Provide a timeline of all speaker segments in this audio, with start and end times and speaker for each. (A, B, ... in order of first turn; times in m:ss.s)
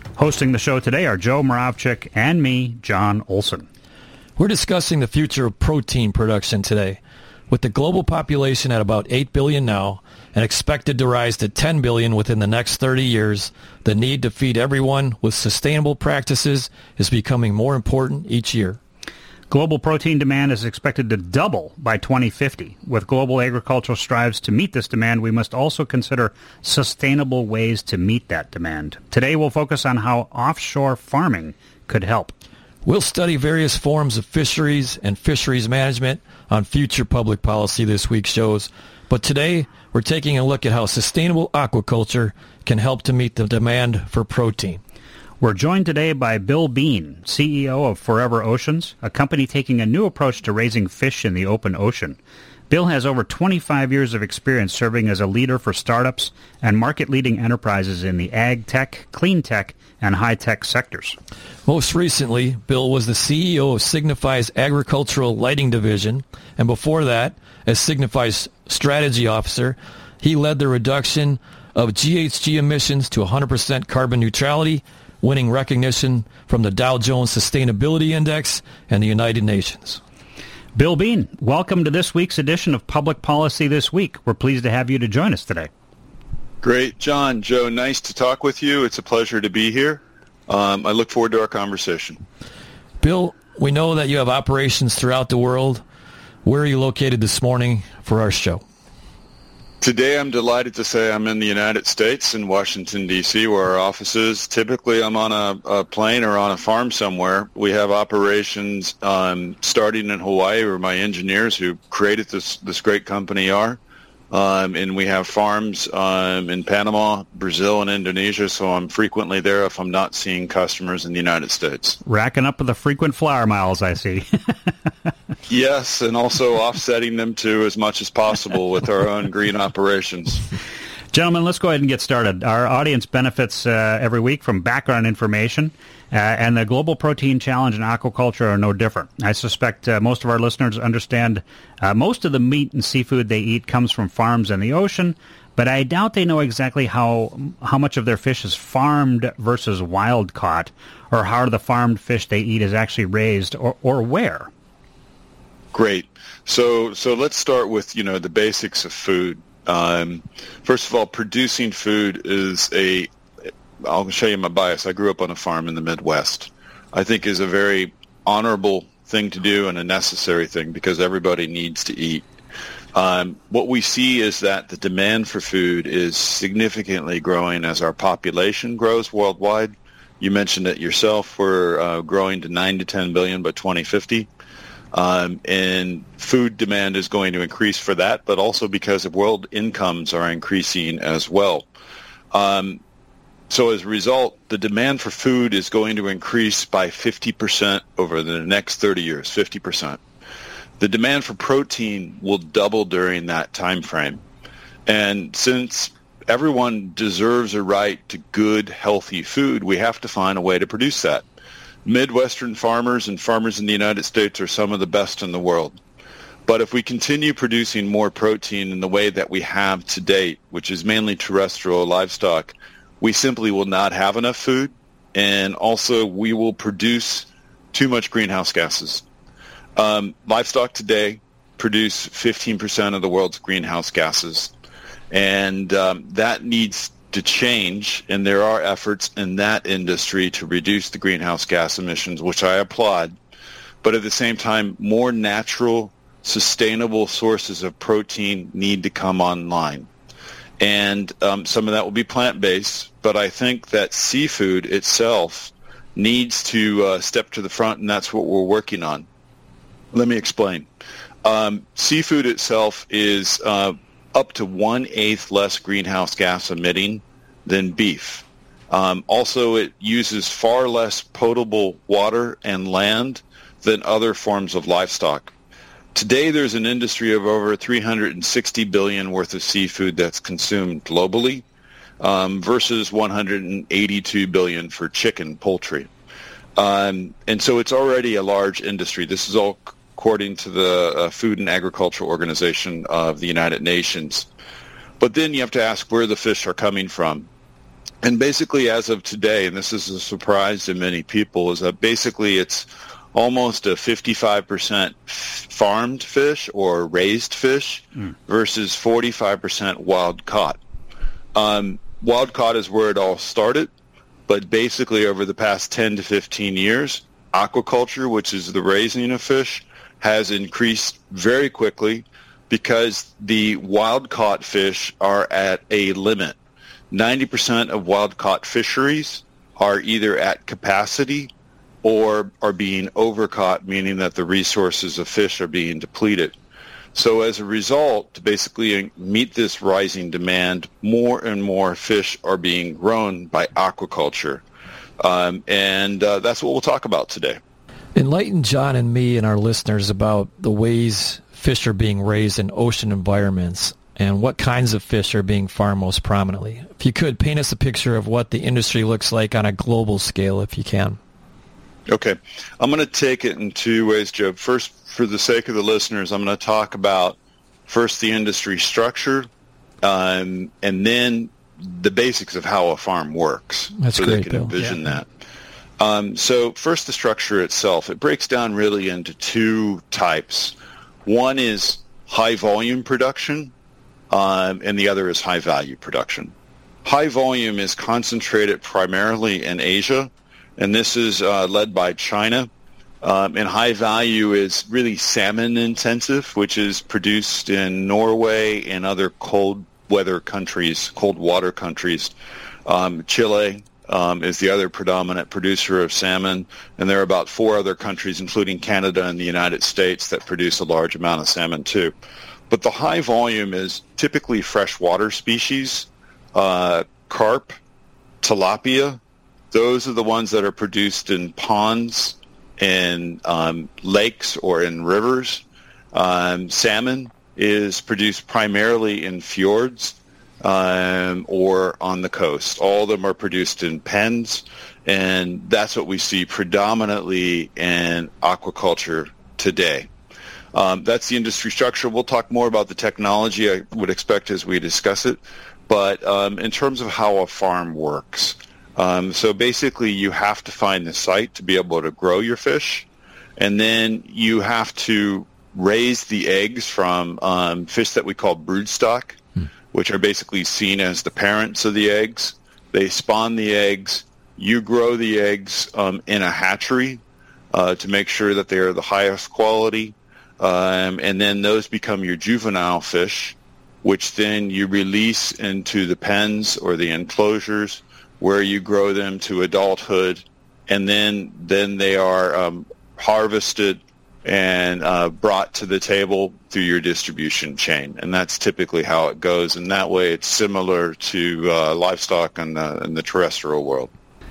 0:00.2-0:03.6 A
0:04.4-0:18.8 B
0:19.5-0:32.3 A
0:32.8-0:44.8 B
0:45.4-0:52.2 A
0:52.7-1:01.2 A
1:01.7-1:20.0 B
1:20.8-1:25.7 A
1:26.6-1:32.2 C
1:33.0-1:35.8 B
1:36.4-1:38.6 B
1:39.8-1:53.8 C
1:54.3-2:02.0 C
2:02.0-2:04.3 A
2:05.5-2:10.5 C
2:11.1-2:34.5 A
2:35.7-2:43.1 C
2:43.8-2:52.2 C
2:52.9-3:04.3 C
3:04.9-3:11.7 C
3:12.3-3:12.8 C
3:13.5-3:20.0 C
3:20.8-3:24.2 C
3:24.9-3:31.2 C
3:31.8-3:35.8 C
3:36.5-3:49.0 C
3:49.8-3:54.5 C
3:55.1-4:03.2 C
4:03.8-4:09.9 C
4:10.6-4:19.1 C
4:19.9-4:20.7 C
4:21.2-4:35.3 C
4:35.9-4:41.4 C
4:42.0-4:45.9 C
4:46.6-4:54.3 C
4:55.0-4:57.3 C
4:58.0-5:10.6 C
5:11.3-5:13.7 C
5:14.3-5:26.4 C
5:26.9-5:31.3 C
5:31.8-5:36.3 C
5:36.9-5:44.4 C
5:45.0-5:47.4 C
5:47.9-6:01.0 B
6:01.9-6:09.3 C
6:09.8-6:15.1 C
6:13.8-6:14.5 B
6:15.8-6:23.5 C
6:24.1-6:26.3 C
6:26.8-6:32.5 C
6:33.0-6:42.1 C
6:42.6-6:51.9 C
6:52.5-6:57.5 C
6:58.2-6:59.0 C
6:59.5-7:19.9 C
7:20.5-7:39.2 C
7:39.7-7:47.0 C
7:47.5-8:13.9 C